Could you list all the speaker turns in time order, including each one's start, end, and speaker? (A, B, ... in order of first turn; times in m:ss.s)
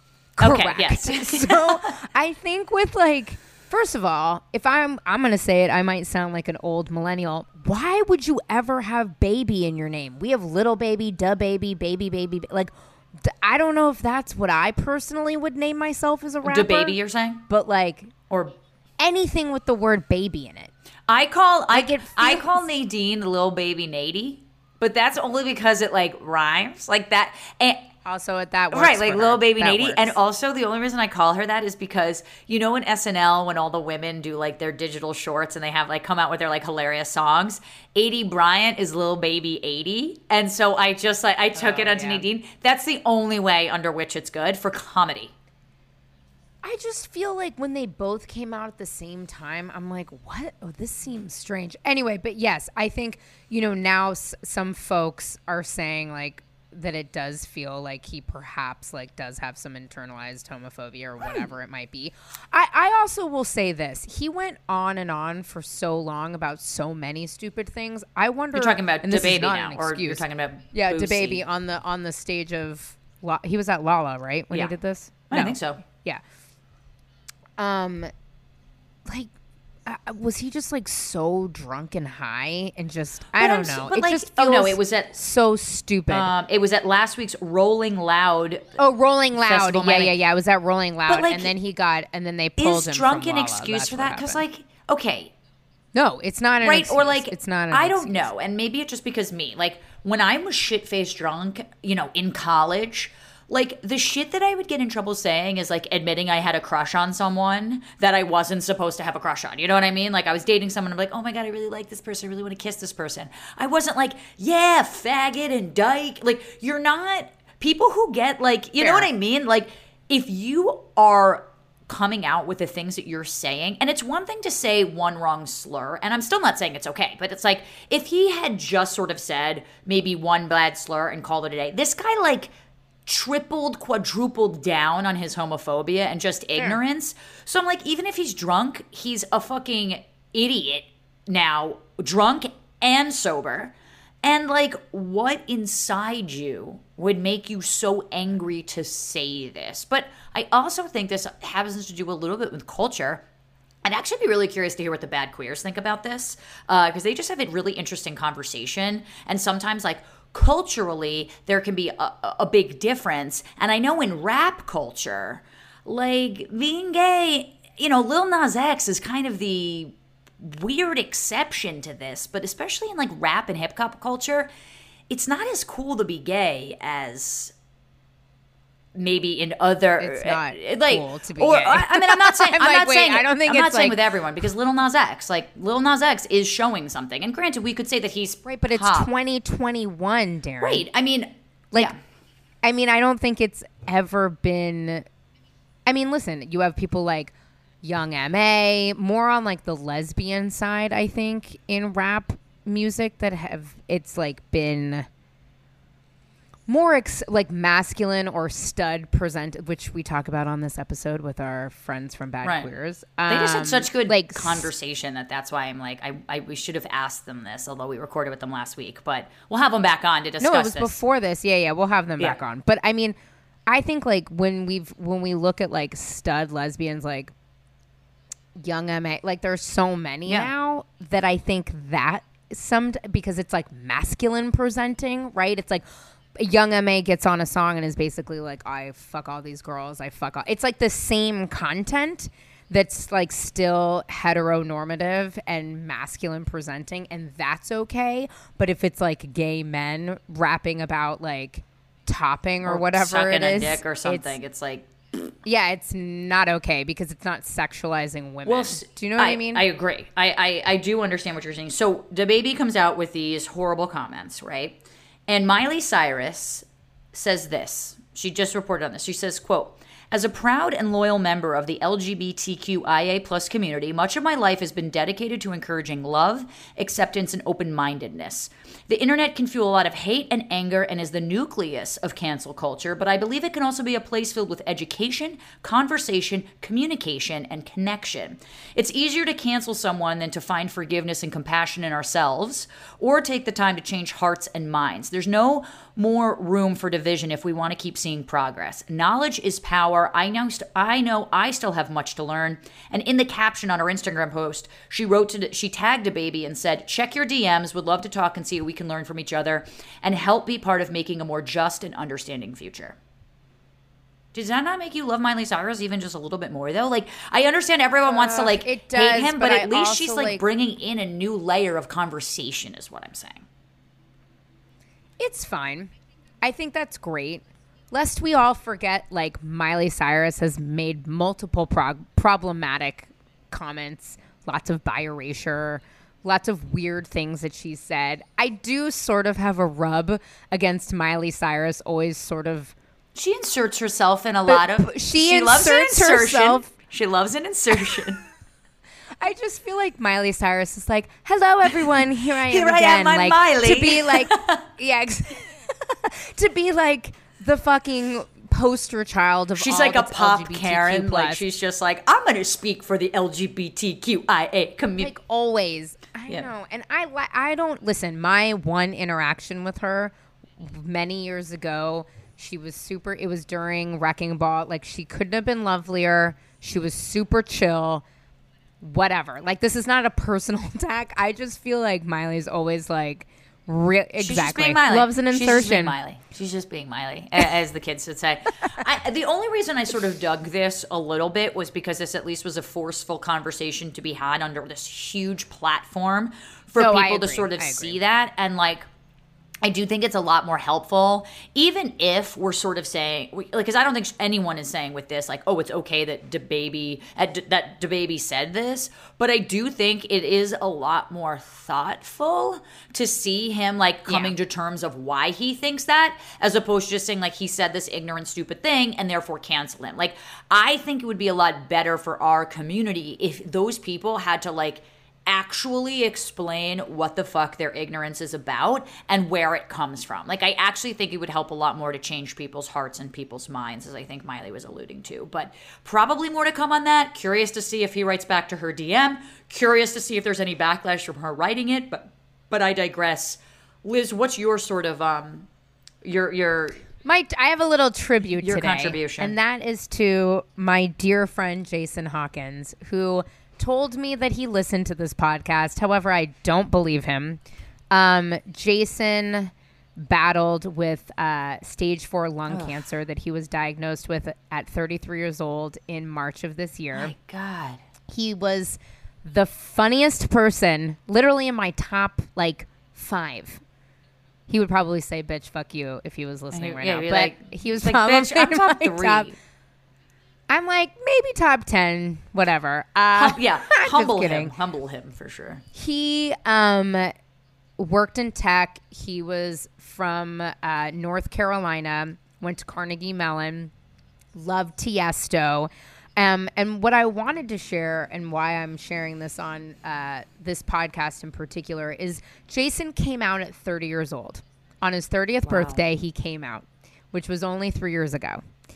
0:00.4-0:17.0 A
0:00.4-0:02.0 B
0:16.4-0:17.5 B
0:17.5-0:18.1 A
0:18.3-0:18.6 B
0:19.0-0:20.7 A
0:21.1-0:27.9 B
0:21.7-0:22.7 A
0:28.0-0:30.2 A
0:28.7-0:45.3 B
0:41.6-0:42.3 A
0:46.6-1:16.2 A
1:08.5-1:11.4 B
1:15.3-1:15.8 B
1:17.6-1:18.1 A
1:19.9-1:26.3 A
1:23.4-1:25.2 B
1:26.1-1:28.8 B
1:28.8-1:34.4 A
1:29.4-1:30.2 B
1:31.1-1:31.5 B
1:32.6-1:35.3 B
1:36.0-1:38.3 A
1:36.6-2:12.5 B
1:58.8-1:59.1 A
2:13.1-2:33.2 B
2:33.8-2:54.5 B
2:55.1-2:57.5 B
2:59.0-3:09.1 B
3:00.0-3:04.0 A
3:08.5-3:10.9 A
3:10.6-3:12.0 B
3:12.6-3:15.1 A
3:15.9-3:25.1 A
3:26.7-3:34.7 A
3:32.4-3:32.7 B
3:33.3-3:41.0 B
3:40.4-3:43.2 A
3:43.7-3:47.3 A
3:48.6-3:55.8 A
3:50.3-3:50.5 B
3:56.4-4:14.4 A
4:12.6-4:14.9 B
4:15.4-4:19.7 A
4:18.4-5:13.0 B
5:14.3-5:23.5 B
5:18.1-5:20.4 A
5:25.2-5:25.9 A
5:26.4-5:42.8 A
5:43.2-5:48.2 B
5:44.5-5:46.7 A
5:49.2-6:01.4 A
5:52.4-5:54.6 B
5:59.6-6:05.1 B
6:05.0-6:18.0 A
6:18.8-6:26.0 A
6:24.2-6:38.9 B
6:36.8-6:38.0 A
6:39.6-7:25.5 B
6:54.1-6:54.4 A
7:26.0-7:26.8 B
7:27.0-7:47.1 A
7:28.4-7:29.4 B
7:42.5-7:42.8 B
7:46.9-7:47.8 B
7:48.1-7:53.6 A
7:54.5-7:59.3 A
7:56.5-7:59.4 B
8:00.5-8:04.5 A
8:03.2-8:05.6 B
8:05.7-8:07.1 A
8:07.8-8:13.7 A
8:14.4-8:28.4 A
8:25.4-8:25.8 B